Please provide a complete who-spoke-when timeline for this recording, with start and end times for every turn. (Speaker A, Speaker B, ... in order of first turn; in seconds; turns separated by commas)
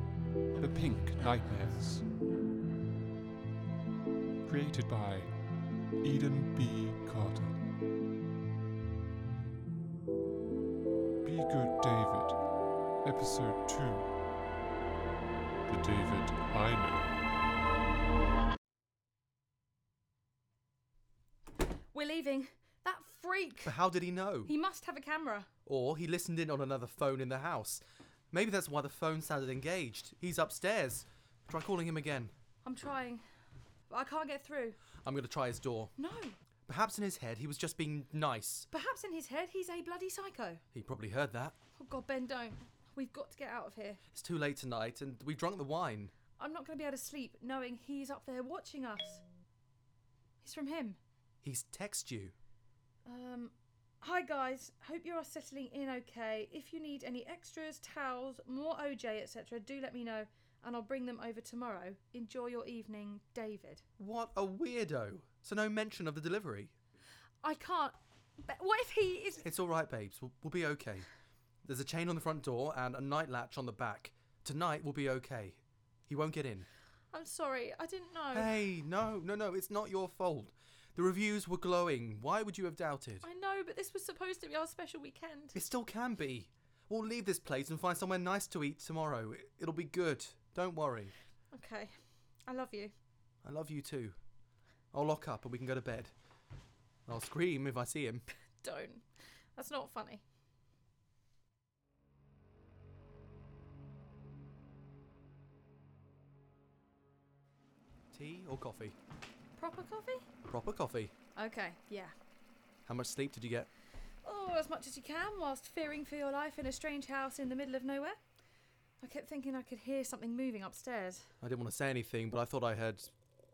Speaker A: 0.6-2.1, Speaker A: 4.4-5.3, Speaker A: 6.0-7.6, Speaker A: 11.2-12.4, Speaker A: 13.0-14.1, Speaker A: 15.7-17.1, Speaker B: 21.9-23.8, Speaker C: 23.6-24.5, Speaker B: 24.4-25.5, Speaker C: 25.6-32.3, Speaker B: 32.6-33.2, Speaker B: 33.9-34.8, Speaker C: 35.0-35.9, Speaker B: 36.0-36.4, Speaker C: 36.7-38.7, Speaker B: 38.7-40.6, Speaker C: 40.7-41.5, Speaker B: 41.8-44.0, Speaker C: 44.1-46.1, Speaker B: 46.4-49.2, Speaker B: 50.4-51.0, Speaker C: 51.4-52.3, Speaker B: 53.0-63.8, Speaker C: 64.0-66.7, Speaker B: 67.4-69.4, Speaker C: 69.4-71.1, Speaker C: 71.6-76.7, Speaker B: 77.1-78.6, Speaker C: 78.3-83.3, Speaker B: 83.2-85.5, Speaker C: 85.5-91.1, Speaker B: 91.5-91.9, Speaker B: 92.5-92.9, Speaker C: 93.4-94.2, Speaker C: 94.9-96.1, Speaker C: 97.1-98.2, Speaker B: 98.6-99.0, Speaker B: 99.5-100.2, Speaker C: 108.1-109.0, Speaker B: 109.5-110.2, Speaker C: 110.5-111.1, Speaker B: 111.3-112.1, Speaker C: 112.8-113.7, Speaker B: 114.2-118.1, Speaker B: 119.0-121.3, Speaker C: 121.4-123.1